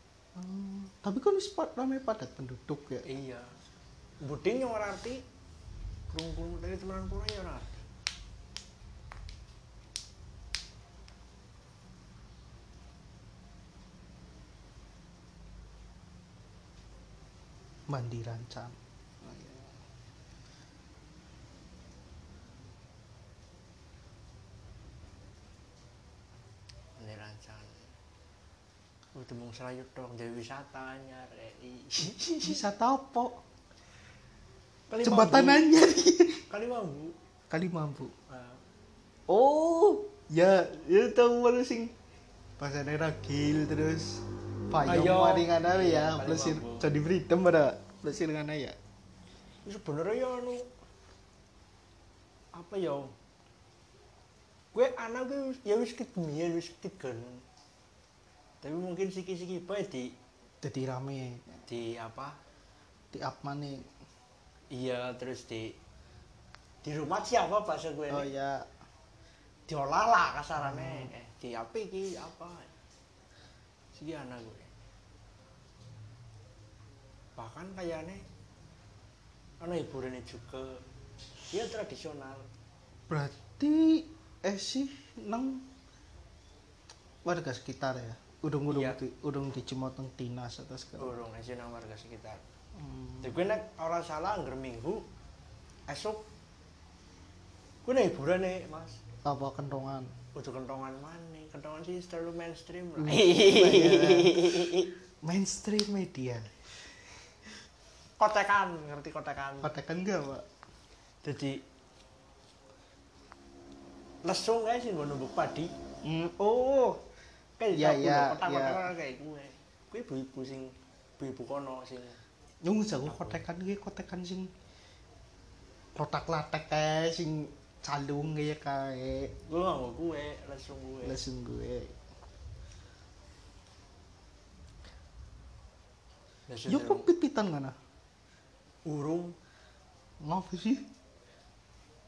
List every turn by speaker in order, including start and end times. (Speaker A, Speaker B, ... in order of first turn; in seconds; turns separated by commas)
Speaker A: 0.3-3.1, Speaker B: 3.0-3.5, Speaker B: 4.2-5.2, Speaker B: 6.1-7.8, Speaker A: 17.9-19.8, Speaker B: 27.0-27.9, Speaker B: 29.1-32.6, Speaker A: 32.4-33.4, Speaker B: 34.9-35.7, Speaker A: 35.0-36.4, Speaker B: 36.5-37.1, Speaker A: 37.5-38.1, Speaker B: 38.3-38.6, Speaker A: 39.3-41.9, Speaker A: 42.6-48.8, Speaker B: 44.9-46.9, Speaker B: 49.6-50.7, Speaker B: 52.5-53.1, Speaker B: 54.7-57.5, Speaker B: 58.6-60.1, Speaker A: 60.6-61.6, Speaker B: 61.7-62.4, Speaker A: 63.1-63.9, Speaker B: 64.7-65.8, Speaker B: 66.8-68.3, Speaker A: 68.1-68.7, Speaker B: 69.7-72.7, Speaker A: 70.6-71.1, Speaker B: 74.0-74.7, Speaker B: 77.4-78.2, Speaker B: 79.6-80.8, Speaker B: 81.5-82.5, Speaker A: 83.1-85.7, Speaker A: 87.2-91.1, Speaker B: 88.7-89.0, Speaker B: 91.0-92.4, Speaker A: 92.8-93.4, Speaker B: 93.2-95.0, Speaker B: 95.9-96.2, Speaker B: 97.8-99.0, Speaker A: 99.2-100.1, Speaker B: 100.3-104.9, Speaker A: 103.0-106.7, Speaker B: 108.2-109.7, Speaker A: 109.6-110.5, Speaker B: 111.2-111.6, Speaker B: 114.2-115.7, Speaker A: 116.0-116.8, Speaker B: 116.6-116.9, Speaker B: 117.6-122.2, Speaker A: 117.7-118.9, Speaker A: 122.6-124.5, Speaker B: 123.0-123.4, Speaker A: 126.0-129.3, Speaker B: 129.5-131.2, Speaker A: 131.0-131.9, Speaker B: 136.5-137.1, Speaker A: 136.7-137.8, Speaker B: 138.8-139.4, Speaker A: 140.2-140.9